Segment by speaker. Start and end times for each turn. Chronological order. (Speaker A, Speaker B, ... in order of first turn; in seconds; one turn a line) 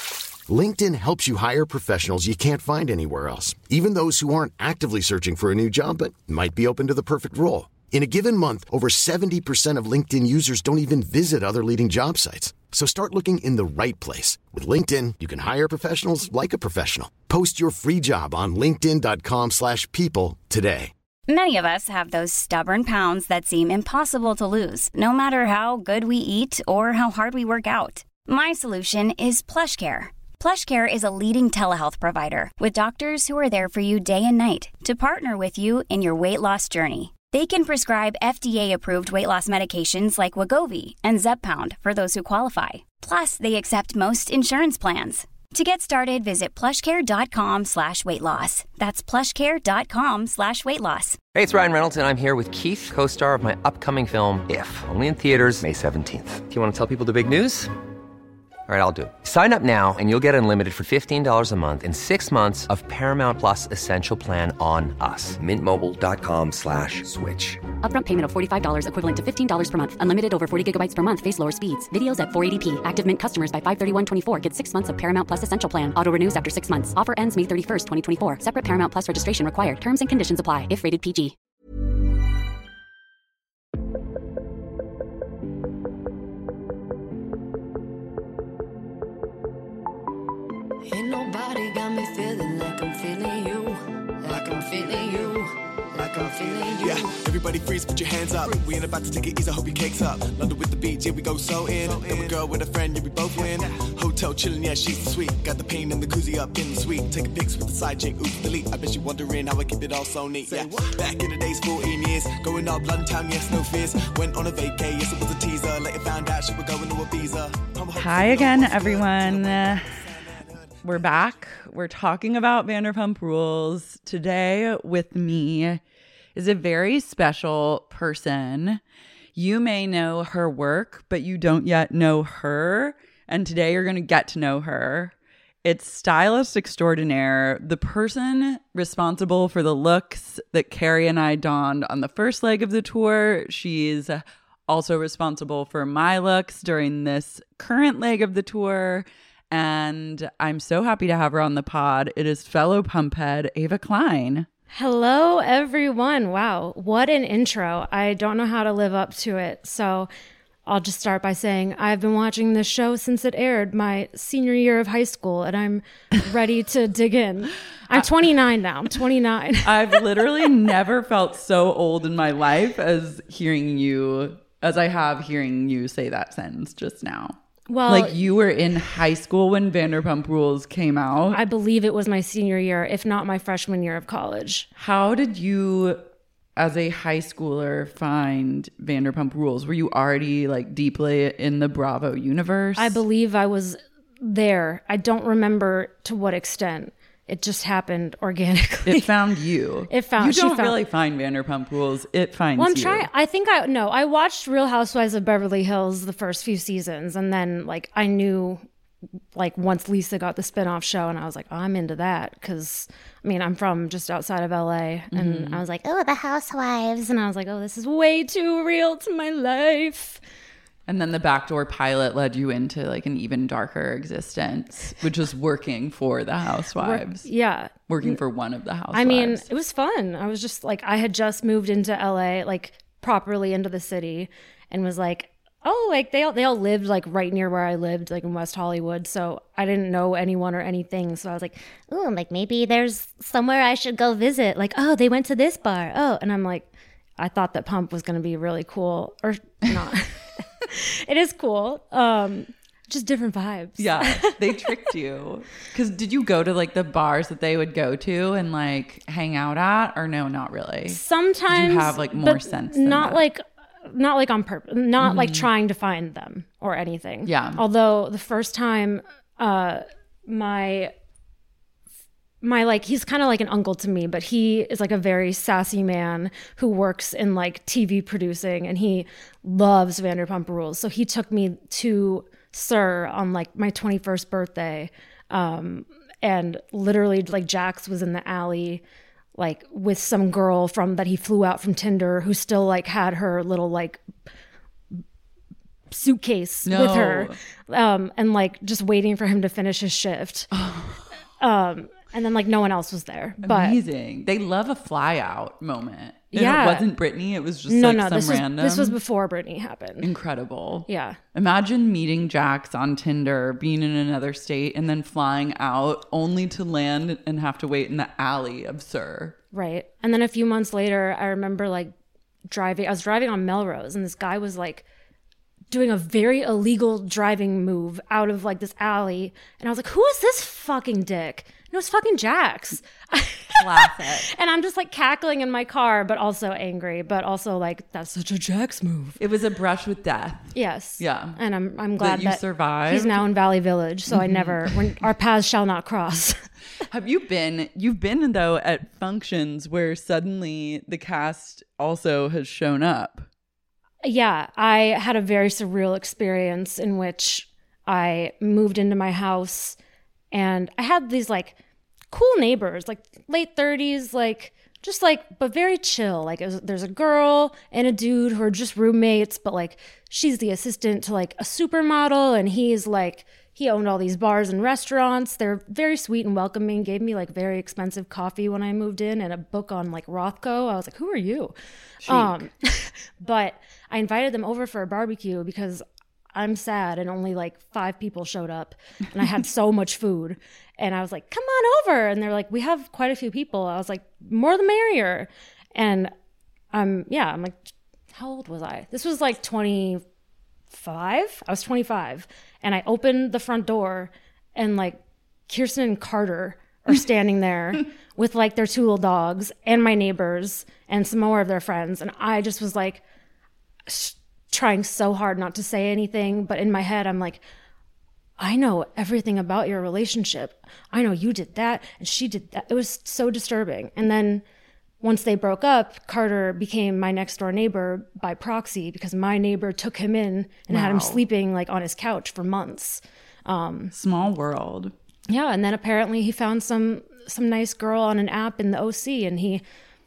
Speaker A: 0.5-20.9
Speaker B: 21.3-51.2
Speaker C: 51.3-57.7
Speaker C: 58.7-67.6
Speaker D: 67.8-81.3
Speaker E: 90.9-97.1
Speaker F: 96.0-120.8
Speaker E: 102.0-102.4
Speaker E: 110.5-110.8
Speaker G: 117.9-120.0
Speaker G: 120.8-125.8
Speaker G: 126.3-128.8
Speaker G: 129.3-154.5
Speaker H: 154.7-160.1
Speaker H: 160.7-170.0
Speaker G: 169.6-181.4
Speaker H: 177.7-178.2
Speaker H: 181.3-184.7
Speaker G: 184.8-186.0
Speaker G: 186.6-193.0
Speaker H: 192.8-199.1
Speaker G: 198.8-203.1
Speaker H: 199.9-200.8
Speaker H: 202.6-208.6
Speaker H: 209.3-220.2
Speaker G: 215.1-215.6
Speaker G: 220.9-227.3
Speaker H: 226.8-228.2
Speaker G: 227.9-229.5
Speaker H: 228.9-254.7
Speaker G: 253.8-263.2
Speaker H: 260.9-270.9
Speaker G: 265.0-265.5
Speaker G: 267.2-267.6
Speaker H: 272.4-288.8
Speaker H: 289.4-294.0
Speaker H: 295.9-300.5
Speaker G: 296.6-297.4
Speaker G: 300.5-301.1
Speaker H: 301.4-303.8
Speaker G: 303.4-309.0
Speaker H: 306.3-306.9
Speaker H: 307.7-310.1
Speaker G: 310.0-319.4
Speaker H: 310.9-311.2
Speaker H: 319.5-321.9
Speaker H: 322.5-324.8
Speaker H: 325.7-339.2
Speaker G: 333.5-334.3
Speaker G: 339.2-341.4
Speaker H: 340.5-346.4
Speaker G: 342.0-343.2
Speaker G: 344.1-344.9
Speaker G: 346.9-353.2
Speaker H: 354.0-359.8
Speaker H: 360.3-361.6
Speaker H: 362.1-381.5
Speaker G: 382.0-382.5
Speaker H: 382.1-396.1
Speaker H: 396.7-400.0
Speaker H: 400.7-413.0
Speaker H: 413.9-417.4
Speaker H: 418.4-424.4
Speaker H: 425.0-433.9
Speaker G: 430.7-431.2
Speaker G: 433.9-434.9
Speaker H: 435.3-439.6